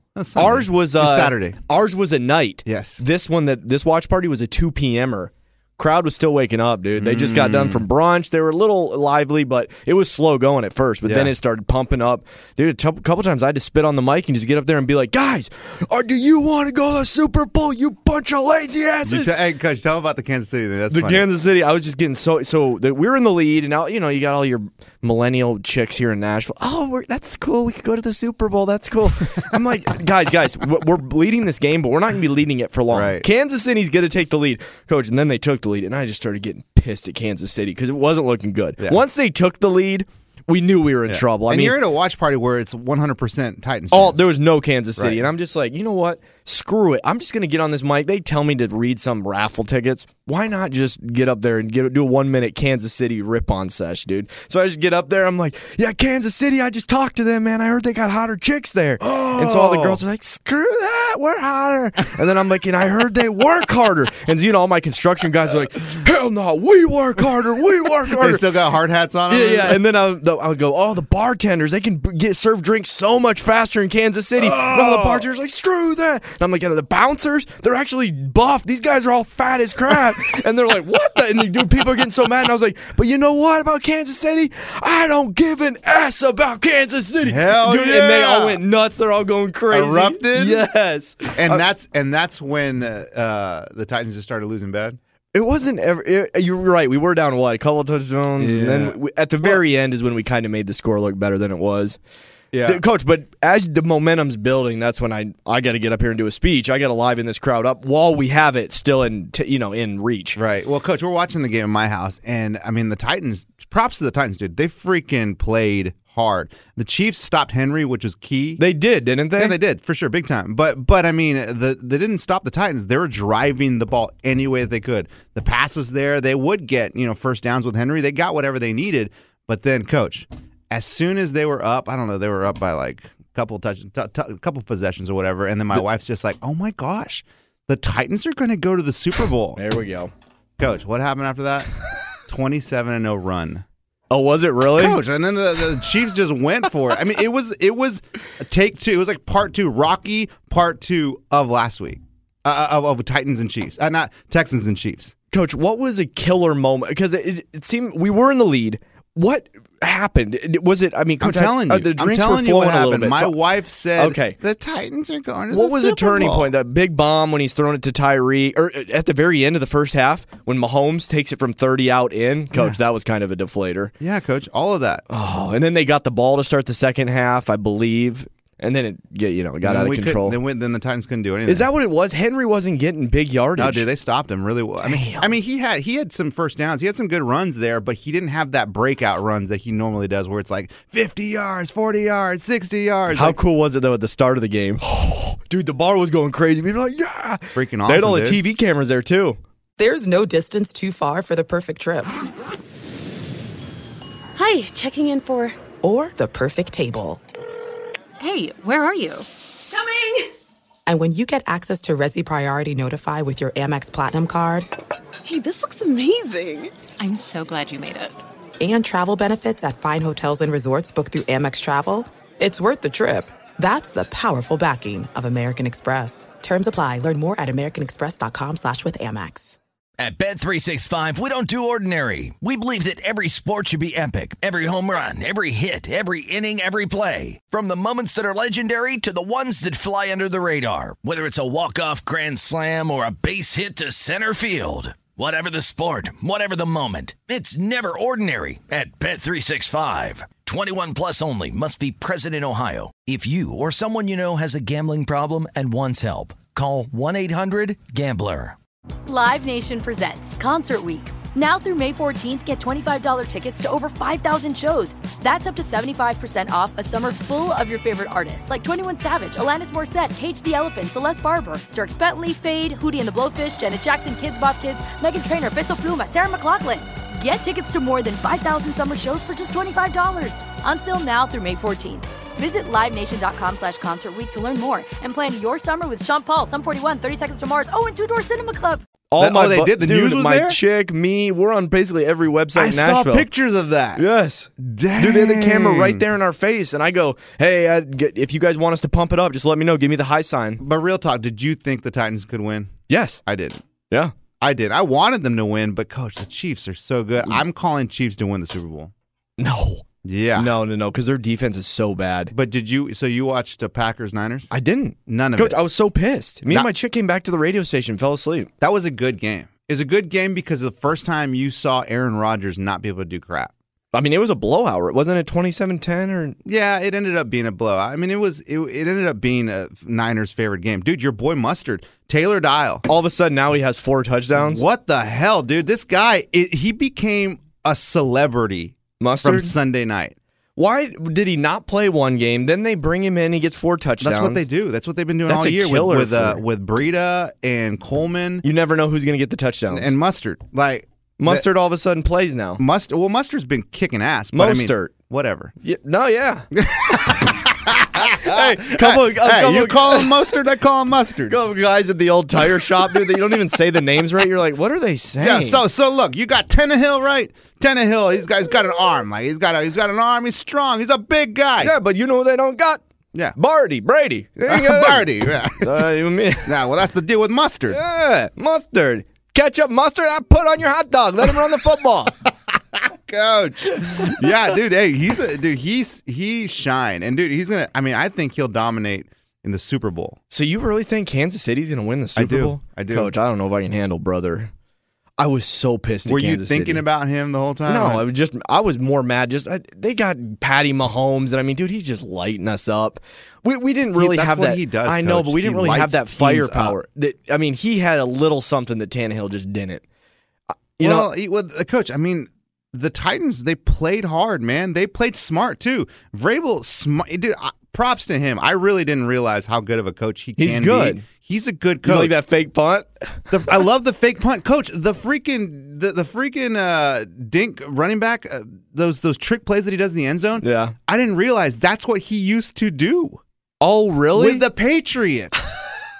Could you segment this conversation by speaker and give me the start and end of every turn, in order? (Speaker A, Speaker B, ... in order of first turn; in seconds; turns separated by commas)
Speaker A: 0.1-1.6, Speaker B: 0.3-19.3, Speaker A: 2.6-3.0, Speaker A: 7.0-7.8, Speaker A: 11.0-11.3, Speaker A: 19.0-21.3, Speaker B: 20.9-41.8, Speaker A: 32.9-33.2, Speaker A: 41.0-44.3, Speaker B: 43.9-68.5, Speaker A: 45.0-45.2, Speaker A: 59.0-60.0, Speaker A: 68.0-69.8, Speaker B: 69.3-91.6, Speaker A: 74.4-75.3, Speaker A: 87.2-88.6, Speaker A: 89.7-90.6, Speaker A: 91.3-95.0, Speaker B: 95.3-102.0, Speaker A: 98.4-99.6, Speaker A: 102.5-102.8, Speaker B: 102.6-110.4, Speaker A: 110.3-118.6, Speaker B: 118.6-119.6, Speaker A: 119.3-139.6, Speaker B: 139.5-140.1, Speaker A: 140.6-143.6, Speaker B: 144.1-145.0, Speaker A: 144.7-155.1, Speaker B: 155.3-163.4, Speaker A: 161.2-166.5, Speaker B: 164.0-164.3, Speaker B: 165.5-173.9, Speaker A: 174.0-175.0, Speaker B: 175.1-180.4, Speaker A: 179.6-181.7, Speaker B: 181.5-183.9, Speaker A: 183.6-193.4, Speaker B: 184.8-185.3, Speaker B: 193.1-199.4, Speaker A: 197.5-198.4, Speaker C: 199.8-202.1, Speaker D: 204.3-205.6, Speaker C: 205.8-207.2, Speaker E: 208.2-209.3, Speaker D: 209.7-210.2, Speaker C: 210.8-214.7, Speaker D: 215.2-216.7, Speaker E: 217.0-218.2, Speaker C: 218.6-229.6, Speaker F: 230.0-258.6, Speaker G: 259.1-288.8, Speaker B: 289.1-293.3, Speaker A: 289.2-290.6, Speaker A: 292.5-294.0, Speaker B: 293.9-300.6, Speaker A: 294.6-296.0, Speaker A: 300.6-302.7, Speaker B: 302.9-303.2, Speaker A: 303.2-303.6, Speaker A: 304.4-308.9, Speaker B: 309.4-312.3, Speaker A: 310.0-310.5, Speaker A: 312.3-314.5, Speaker B: 314.5-318.5, Speaker A: 315.1-315.6, Speaker A: 316.4-316.7, Speaker A: 318.6-323.5, Speaker B: 323.9-326.4, Speaker A: 326.4-332.8, Speaker B: 332.9-334.6, Speaker A: 334.3-340.1, Speaker B: 339.0-339.6, Speaker B: 340.6-344.4, Speaker A: 344.0-348.4, Speaker B: 345.3-346.4, Speaker B: 348.4-349.9, Speaker A: 349.7-351.4, Speaker B: 351.2-352.6, Speaker A: 352.6-355.5, Speaker B: 354.3-354.9, Speaker B: 355.6-356.5, Speaker A: 356.5-361.4, Speaker B: 357.9-360.2, Speaker B: 361.3-365.6, Speaker A: 365.2-371.7, Speaker B: 371.6-372.8, Speaker B: 373.4-375.1, Speaker A: 374.5-377.8, Speaker B: 375.6-376.6, Speaker B: 377.7-382.1, Speaker A: 382.5-390.2, Speaker B: 390.3-394.5, Speaker A: 392.1-393.1, Speaker B: 395.2-396.8, Speaker A: 396.0-398.1, Speaker B: 397.7-409.8, Speaker A: 403.9-406.8, Speaker B: 410.8-411.1, Speaker A: 410.8-422.2, Speaker B: 420.4-421.0, Speaker B: 421.8-423.6, Speaker A: 423.3-433.2, Speaker B: 430.4-430.7, Speaker B: 433.6-434.4, Speaker A: 434.1-435.3